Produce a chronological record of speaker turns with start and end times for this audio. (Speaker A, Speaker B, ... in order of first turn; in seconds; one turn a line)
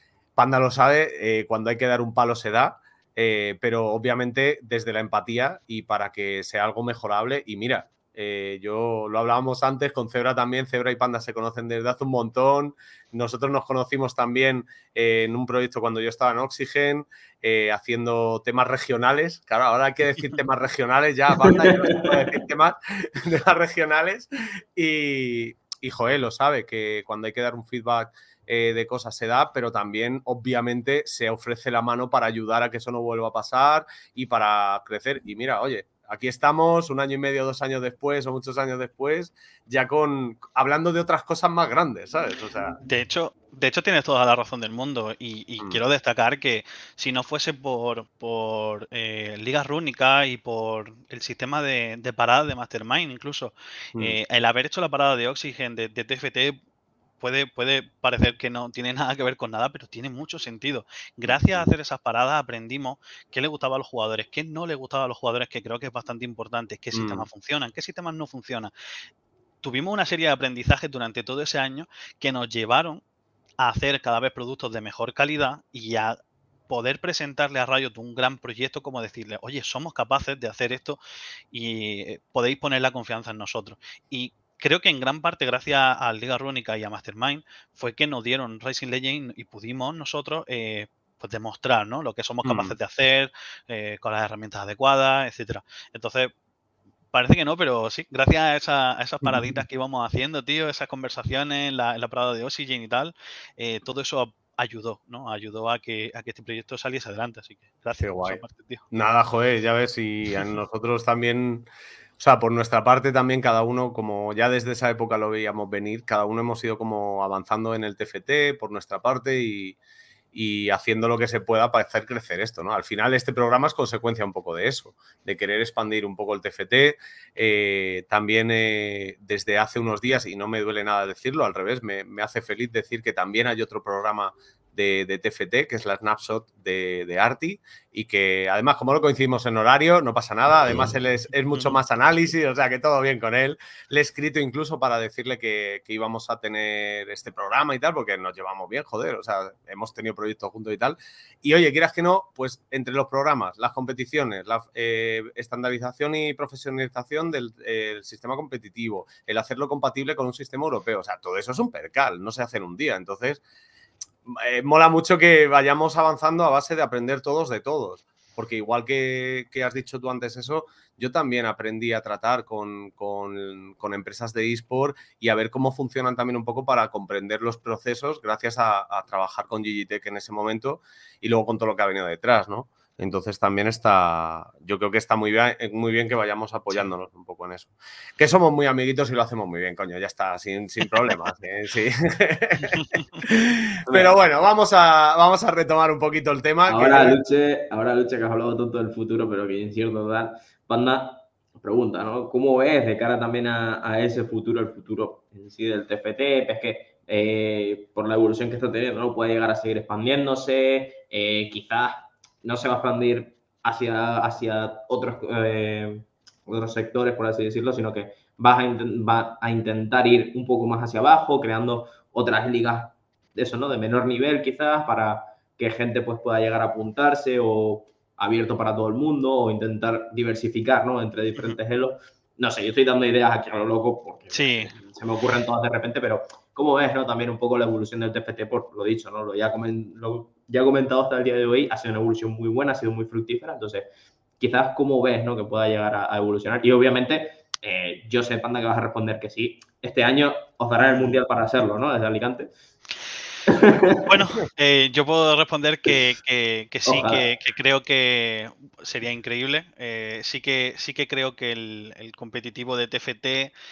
Speaker A: 0.4-42.8
Speaker B: 21.4-22.2
Speaker C: 42.9-56.6
Speaker C: 57.2-68.7
Speaker A: 61.2-61.7
Speaker A: 66.9-67.3
Speaker C: 69.6-73.0
Speaker C: 73.6-76.2
Speaker C: 76.7-81.0
Speaker C: 81.5-96.3
Speaker A: 92.4-92.8
Speaker C: 97.1-108.8
Speaker A: 99.2-99.6
Speaker A: 108.0-119.8
Speaker A: 120.3-163.4
Speaker C: 141.5-141.8
Speaker A: 164.3-197.2
Speaker C: 192.7-193.0
Speaker B: 193.9-194.2
Speaker B: 196.7-243.9
Speaker C: 234.3-234.8
Speaker B: 244.4-252.5
Speaker B: 253.5-254.0
Speaker C: 254.0-263.5
Speaker B: 256.9-257.2